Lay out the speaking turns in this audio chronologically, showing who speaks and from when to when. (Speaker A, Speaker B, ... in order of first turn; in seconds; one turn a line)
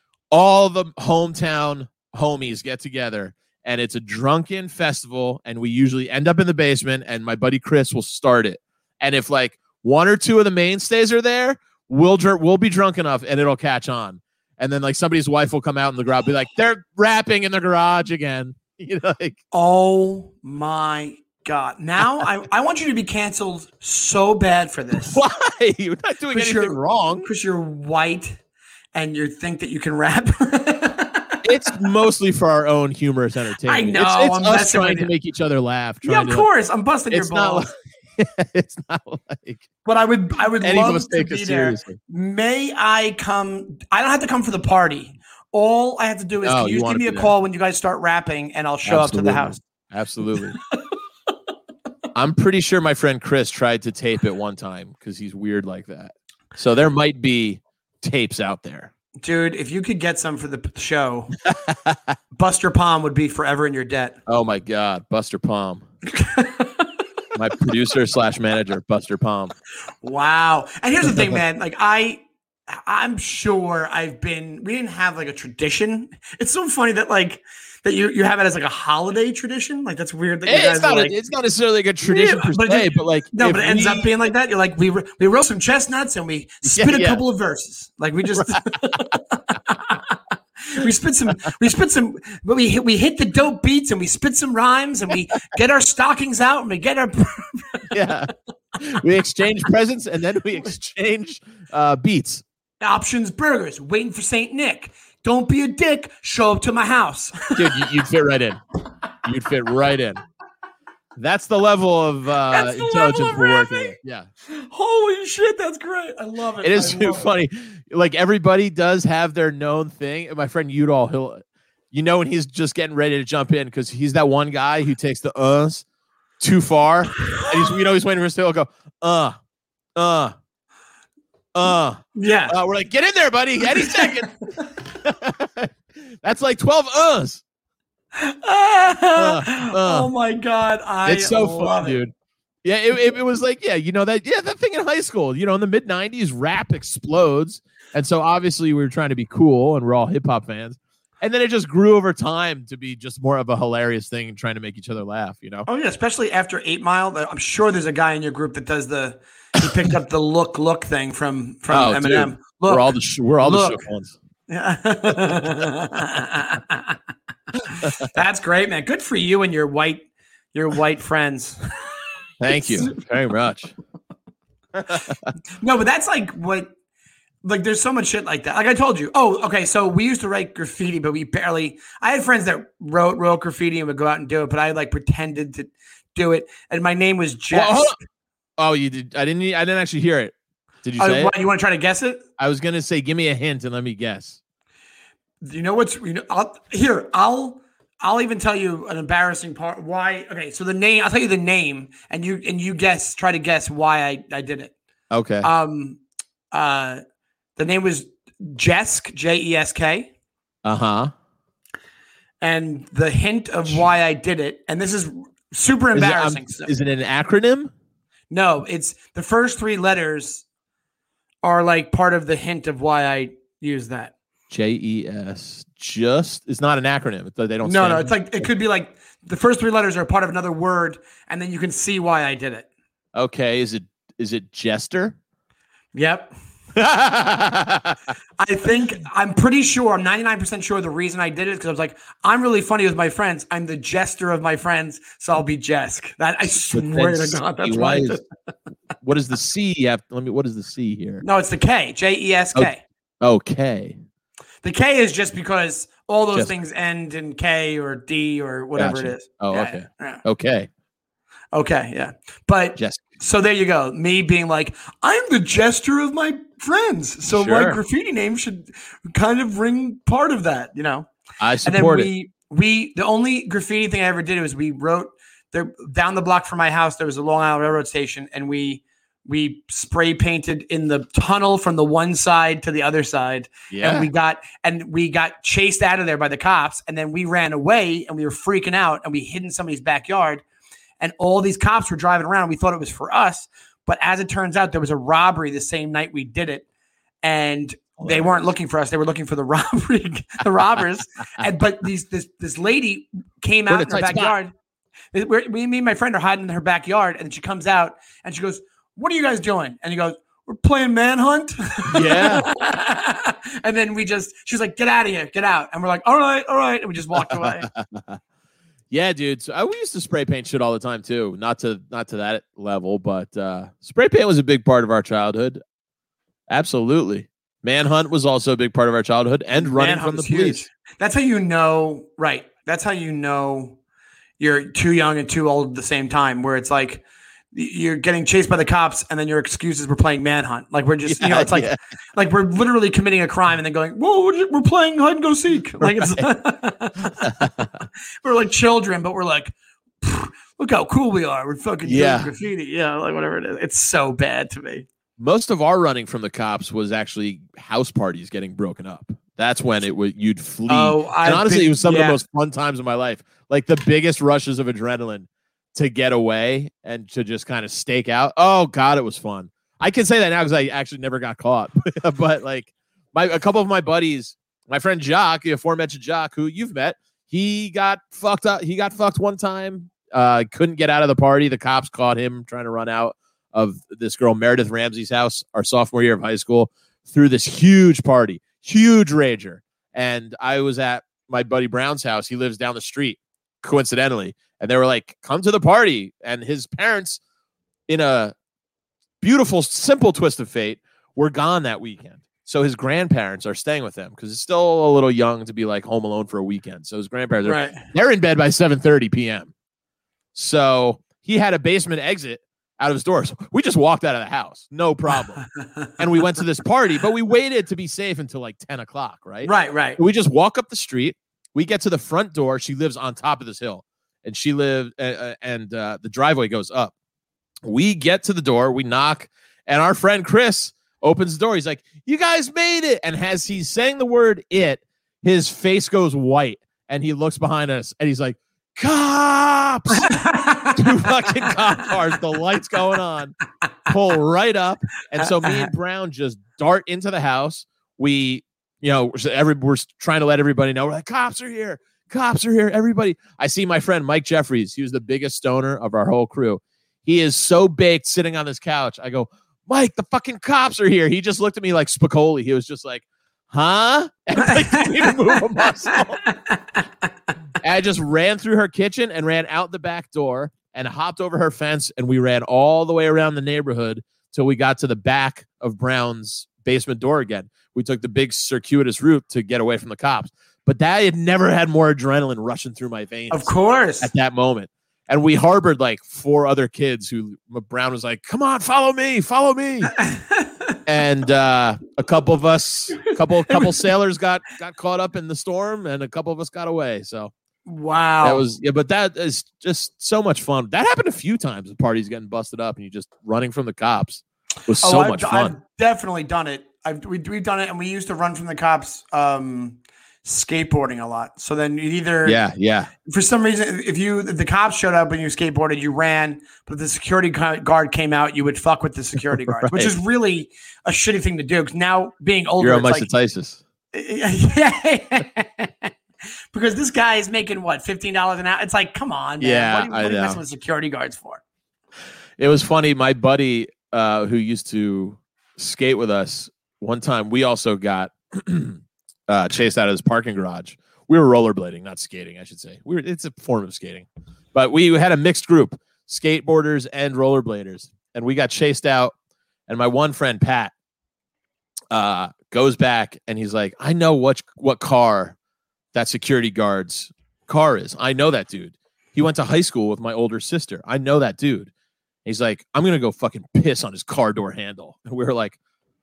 Speaker A: 0.3-19.4
Speaker B: 19.5-25.2
Speaker A: 25.1-27.3
Speaker B: 26.3-28.4
Speaker B: 28.9-31.4
Speaker A: 31.4-36.5
Speaker B: 33.7-35.1
Speaker B: 36.0-37.7
Speaker A: 37.1-39.6
Speaker B: 39.9-49.6
Speaker A: 40.6-42.0
Speaker A: 46.4-47.3
Speaker A: 48.9-50.6
Speaker A: 52.1-58.9
Speaker B: 59.2-61.4
Speaker A: 61.5-62.2
Speaker B: 62.3-64.2
Speaker A: 64.3-65.8
Speaker B: 66.1-66.9
Speaker A: 67.3-69.5
Speaker B: 70.0-81.2
Speaker A: 80.5-84.1
Speaker B: 82.0-97.9
Speaker A: 86.7-87.2
Speaker A: 88.3-88.6
Speaker A: 97.9-102.4
Speaker B: 102.8-107.8
Speaker A: 107.6-108.6
Speaker A: 109.2-110.2
Speaker A: 111.2-114.3
Speaker B: 112.5-114.0
Speaker B: 114.5-117.3
Speaker A: 116.6-125.8
Speaker A: 126.4-129.4
Speaker A: 130.0-130.3
Speaker A: 131.5-134.5
Speaker B: 132.2-132.6
Speaker B: 133.8-134.2
Speaker A: 135.0-137.4
Speaker B: 138.2-142.0
Speaker A: 139.2-140.1
Speaker A: 141.1-142.1
Speaker A: 142.6-155.7
Speaker B: 155.7-162.9
Speaker A: 161.7-164.2
Speaker B: 163.4-163.8
Speaker B: 164.5-167.0
Speaker B: 167.7-171.6
Speaker A: 172.4-173.7
Speaker B: 172.6-172.9
Speaker A: 174.8-175.2
Speaker B: 175.6-176.7
Speaker B: 177.4-188.0
Speaker A: 187.5-188.0
Speaker A: 188.6-191.3
Speaker B: 191.0-192.2
Speaker A: 192.4-194.4
Speaker B: 195.4-204.7
Speaker A: 205.1-205.5
Speaker B: 205.4-207.0
Speaker B: 207.6-210.1
Speaker A: 210.7-211.1
Speaker B: 212.4-216.7
Speaker A: 215.9-217.7
Speaker B: 218.3-220.4
Speaker B: 221.4-224.1
Speaker A: 224.5-228.5
Speaker B: 227.6-232.7
Speaker A: 233.1-235.2
Speaker B: 235.9-236.3
Speaker A: 236.8-238.0
Speaker B: 238.4-248.2
Speaker A: 246.7-248.2
Speaker A: 249.0-251.2
Speaker B: 251.2-252.8
Speaker A: 253.2-254.0
Speaker B: 254.6-260.2
Speaker A: 258.8-260.7
Speaker B: 261.5-271.1
Speaker A: 262.8-263.0
Speaker A: 267.3-267.8
Speaker A: 271.4-272.1
Speaker B: 271.6-290.4
Speaker A: 283.7-284.1
Speaker B: 291.0-296.6
Speaker B: 297.2-304.5
Speaker A: 298.0-298.4
Speaker A: 303.7-304.4
Speaker B: 305.1-317.7
Speaker A: 311.9-312.5
Speaker A: 317.2-318.2
Speaker A: 318.9-325.6
Speaker A: 326.5-330.7
Speaker B: 329.6-333.8
Speaker B: 334.4-347.5
Speaker A: 341.1-341.8
Speaker A: 345.8-346.3
Speaker A: 347.2-347.6
Speaker B: 348.2-354.9
Speaker A: 351.9-352.3
Speaker A: 355.2-397.2
Speaker B: 360.7-362.2
Speaker A: 397.9-398.4
Speaker A: 399.2-409.5
Speaker B: 407.4-407.8
Speaker A: 410.4-426.9
Speaker B: 419.4-420.0
Speaker A: 427.6-443.4
Speaker B: 439.9-441.6
Speaker A: 443.9-466.2
Speaker B: 445.2-445.7
Speaker B: 464.7-465.1
Speaker B: 466.0-466.6
Speaker A: 467.6-490.0
Speaker B: 483.3-484.1
Speaker B: 490.0-490.8
Speaker A: 490.9-497.3
Speaker B: 497.7-498.4
Speaker A: 498.2-505.6
Speaker B: 504.8-512.4
Speaker A: 512.2-512.9
Speaker B: 513.1-523.1
Speaker A: 519.3-519.9
Speaker A: 522.6-523.6
Speaker B: 523.9-525.9
Speaker B: 526.5-531.4
Speaker A: 529.4-530.4
Speaker A: 532.4-549.1
Speaker A: 549.7-550.7
Speaker A: 551.9-555.4
Speaker A: 555.9-561.7
Speaker A: 562.2-565.6